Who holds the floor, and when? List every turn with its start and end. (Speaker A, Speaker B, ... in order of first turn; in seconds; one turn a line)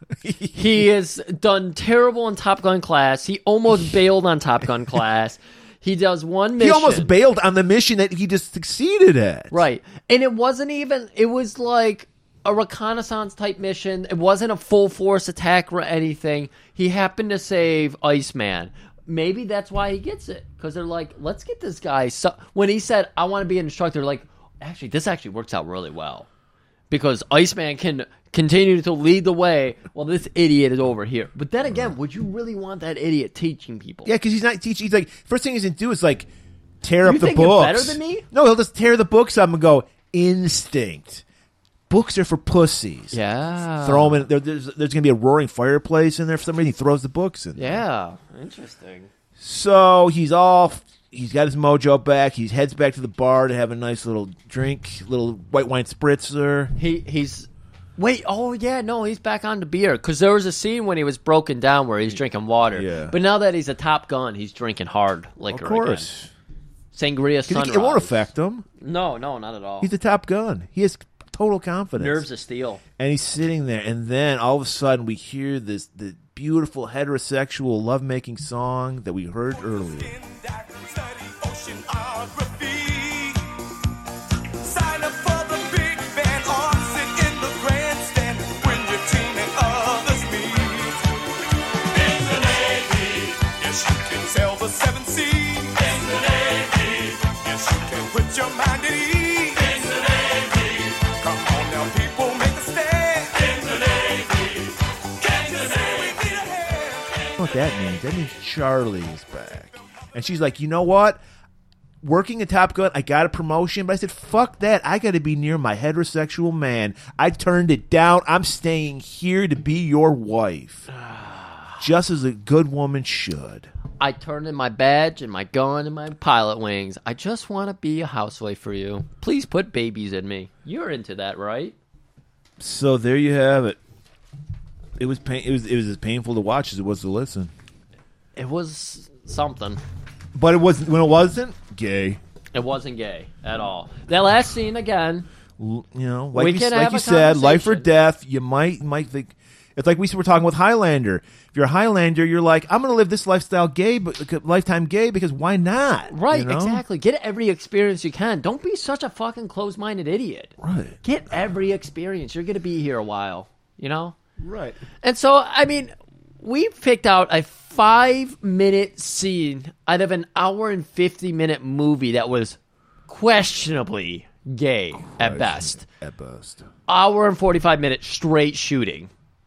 Speaker A: 0.2-0.8
Speaker B: 0.5-7.1
Speaker A: 6.6-9.6
Speaker B: 9.5-26.3
Speaker B: 26.9-34.1
Speaker A: 34.0-36.3
Speaker A: 36.8-41.2
Speaker B: 37.0-38.3
Speaker A: 41.9-43.2
Speaker B: 43.1-44.3
Speaker A: 43.8-47.8
Speaker B: 47.6-49.1
Speaker A: 49.4-56.7
Speaker B: 56.8-66.1
Speaker A: 62.7-63.2
Speaker A: 65.5-66.3
Speaker B: 66.9-68.3
Speaker A: 67.5-68.7
Speaker B: 68.8-69.9
Speaker A: 69.8-72.3
Speaker B: 72.0-72.8
Speaker A: 73.0-80.1
Speaker C: 79.5-83.5
Speaker C: 84.6-91.1
Speaker C: 92.0-104.6
Speaker C: 105.2-107.3
Speaker A: 107.4-111.2
Speaker A: 112.0-120.9
Speaker B: 121.0-121.7
Speaker A: 121.8-123.7
Speaker B: 124.0-131.8
Speaker A: 132.6-133.8
Speaker A: 135.0-137.5
Speaker B: 138.4-139.8
Speaker A: 140.3-142.2
Speaker B: 142.5-145.3
Speaker A: 145.6-156.8
Speaker B: 146.3-147.9
Speaker B: 156.1-164.2
Speaker A: 160.6-161.0
Speaker A: 164.4-164.8
Speaker B: 165.0-172.6
Speaker B: 173.1-175.8
Speaker A: 175.1-176.7
Speaker B: 176.9-179.1